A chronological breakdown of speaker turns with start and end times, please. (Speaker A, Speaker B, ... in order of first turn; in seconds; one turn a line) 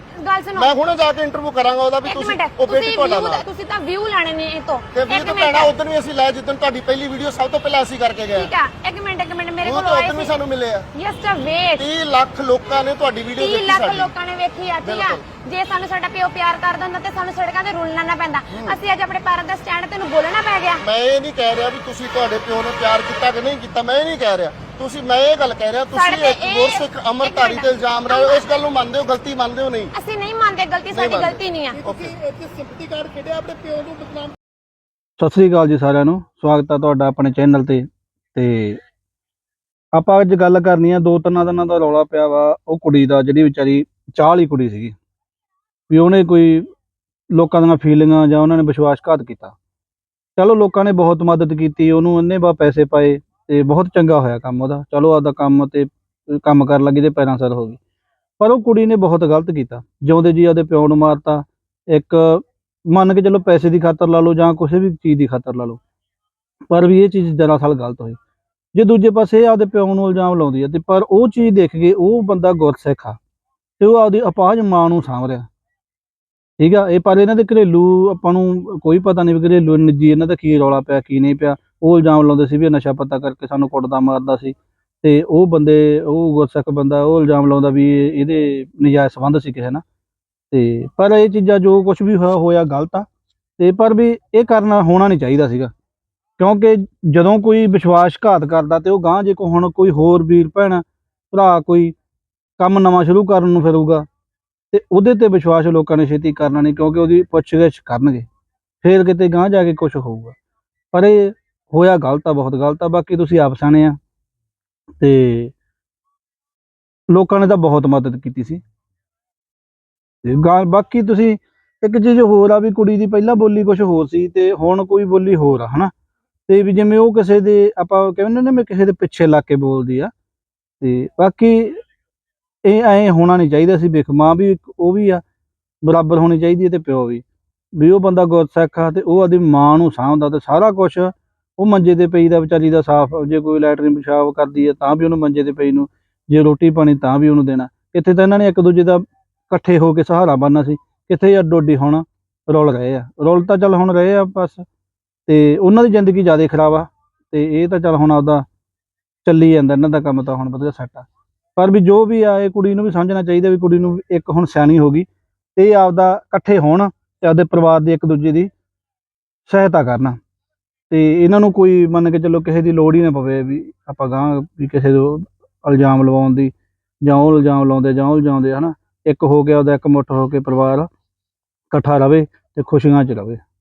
Speaker A: 0.2-0.7
Speaker B: 0.5-3.4
Speaker A: 2.0-5.7
Speaker B: 4.9-8.5
Speaker A: 8.3-10.3
Speaker B: 9.6-10.9
Speaker A: 10.9-11.8
Speaker B: 11.8-14.1
Speaker A: 13.4-20.8
Speaker B: 14.8-15.2
Speaker B: 18.5-18.8
Speaker B: 20.8-29.9
Speaker A: 25.9-28.5
Speaker A: 29.9-31.8
Speaker B: 30.9-32.1
Speaker C: 32.2-34.3
Speaker D: 35.2-38.8
Speaker D: 39.9-44.9
Speaker D: 45.9-46.6
Speaker D: 47.3-49.5
Speaker D: 50.4-57.8
Speaker D: 58.4-65.8
Speaker D: 66.7-68.2
Speaker D: 68.7-73.2
Speaker D: 73.8-75.5
Speaker D: 76.6-89.8
Speaker D: 90.5-93.0
Speaker D: 93.6-95.7
Speaker D: 96.4-101.9
Speaker D: 102.6-104.0
Speaker D: 104.7-108.2
Speaker D: 108.8-110.3
Speaker D: 110.9-114.0
Speaker D: 115.0-115.5
Speaker D: 117.1-118.6
Speaker D: 120.2-125.9
Speaker D: 126.5-130.1
Speaker D: 130.8-131.8
Speaker D: 132.6-135.2
Speaker D: 135.8-137.2
Speaker D: 137.8-154.6
Speaker D: 155.3-158.4
Speaker D: 159.2-168.5
Speaker D: 169.5-170.2
Speaker D: 170.9-176.5
Speaker D: 177.0-180.8
Speaker D: 181.7-183.4